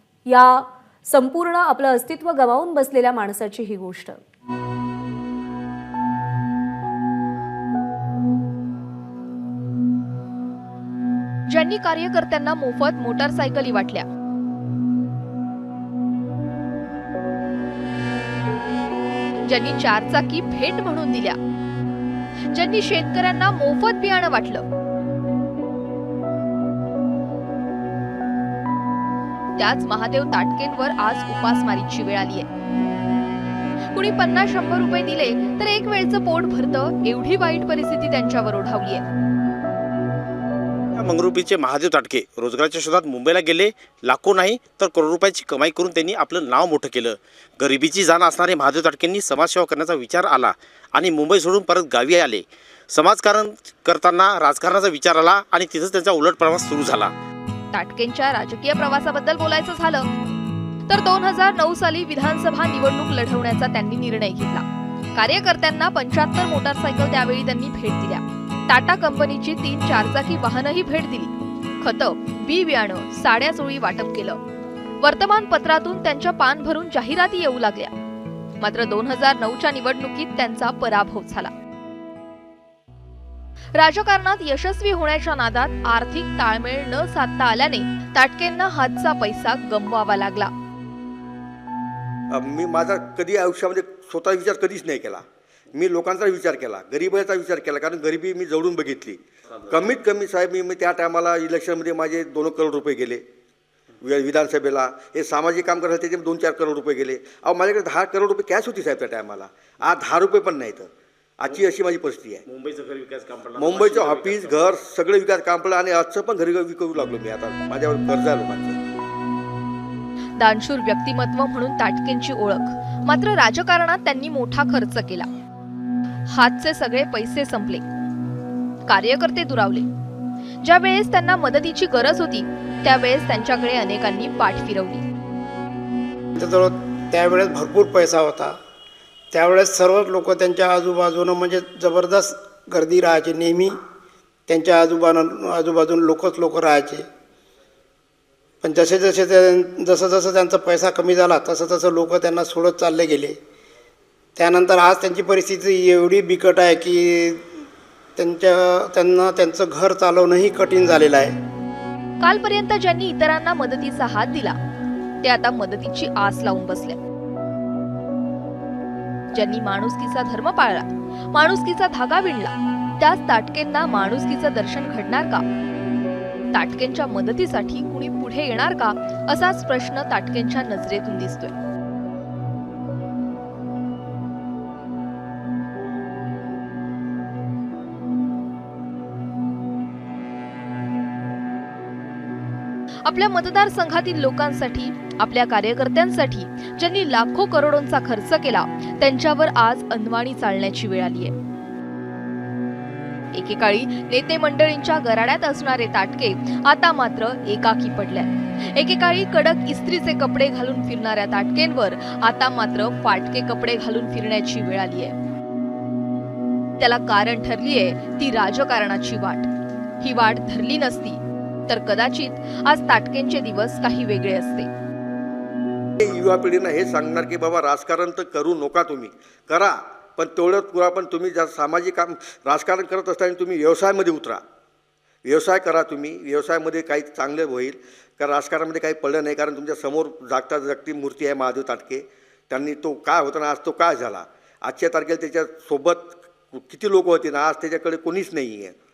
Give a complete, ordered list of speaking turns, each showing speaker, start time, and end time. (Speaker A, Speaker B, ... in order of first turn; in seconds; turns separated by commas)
Speaker A: 0.3-4.2, Speaker B: 11.5-14.1, Speaker B: 19.5-21.4, Speaker B: 22.5-24.6, Speaker B: 29.6-32.5, Speaker B: 33.9-39.0, Speaker C: 41.0-57.1, Speaker B: 57.7-60.1, Speaker B: 60.9-74.4, Speaker B: 75.0-77.9, Speaker B: 78.6-81.5, Speaker B: 83.7-90.5, Speaker D: 92.3-103.2, Speaker D: 104.0-112.4, Speaker C: 112.5-114.7, Speaker D: 113.6-118.8, Speaker B: 120.4-125.3, Speaker B: 126.3-127.8, Speaker B: 128.9-129.9, Speaker B: 130.6-135.0, Speaker E: 136.4-138.6, Speaker E: 139.3-143.8, Speaker E: 144.5-147.1, Speaker E: 148.6-153.4, Speaker E: 154.4-157.5, Speaker E: 158.2-161.3, Speaker B: 162.2-164.6, Speaker B: 165.2-167.0, Speaker B: 169.3-175.4, Speaker B: 176.5-181.5, Speaker B: 193.1-201.3, Speaker B: 203.3-215.1, Speaker B: 216.8-219.5, Speaker B: 220.0-224.7, Speaker D: 226.0-234.4, Speaker D: 235.2-248.8